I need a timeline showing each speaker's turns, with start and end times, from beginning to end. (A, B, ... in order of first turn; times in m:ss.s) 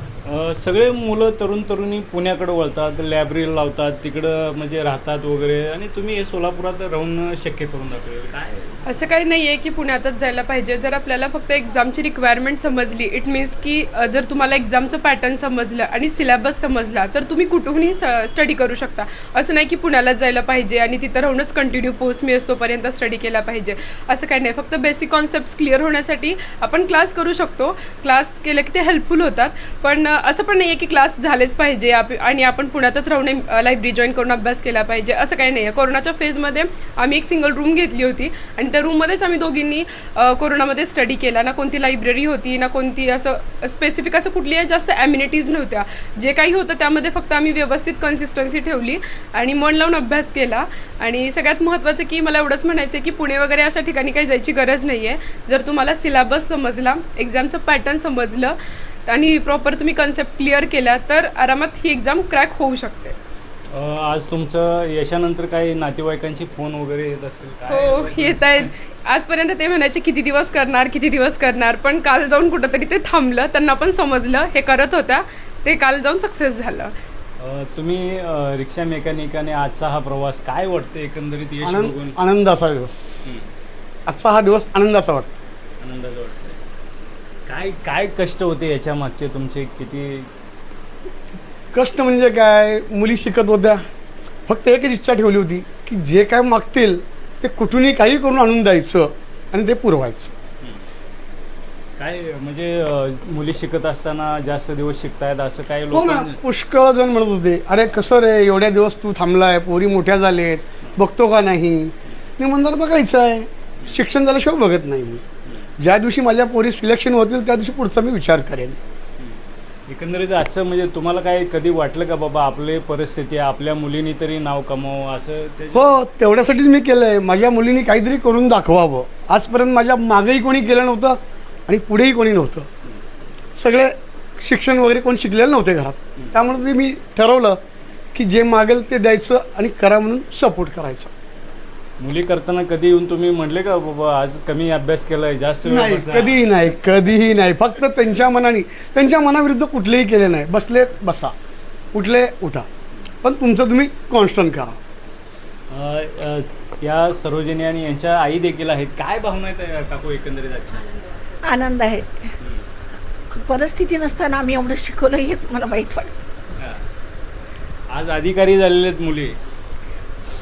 0:00.2-0:08.8 A
0:08.9-0:58.6 B
0:59.1-1:03.2 B
1:03.7-1:08.7 A
1:07.7-1:16.9 B
1:17.4-1:22.2 A
1:21.6-1:23.2 C
1:24.1-1:25.4 C
1:25.8-1:26.6 A
1:27.5-1:30.3 A
1:31.7-1:33.8 C
1:34.5-1:40.3 C
1:42.0-1:46.4 A
1:45.9-1:55.2 C
1:55.8-1:58.8 C
1:59.9-2:06.0 A
2:05.7-2:12.7 C
2:13.6-2:17.6 C
2:18.1-2:21.1 C
2:22.0-2:26.6 A
2:25.7-2:31.3 C
2:31.9-2:32.7 C
2:33.2-2:34.8 C
2:35.7-2:40.9 A
2:41.4-2:42.3 D
2:42.4-2:42.6 A
2:43.4-2:46.3 D
2:47.9-2:49.4 A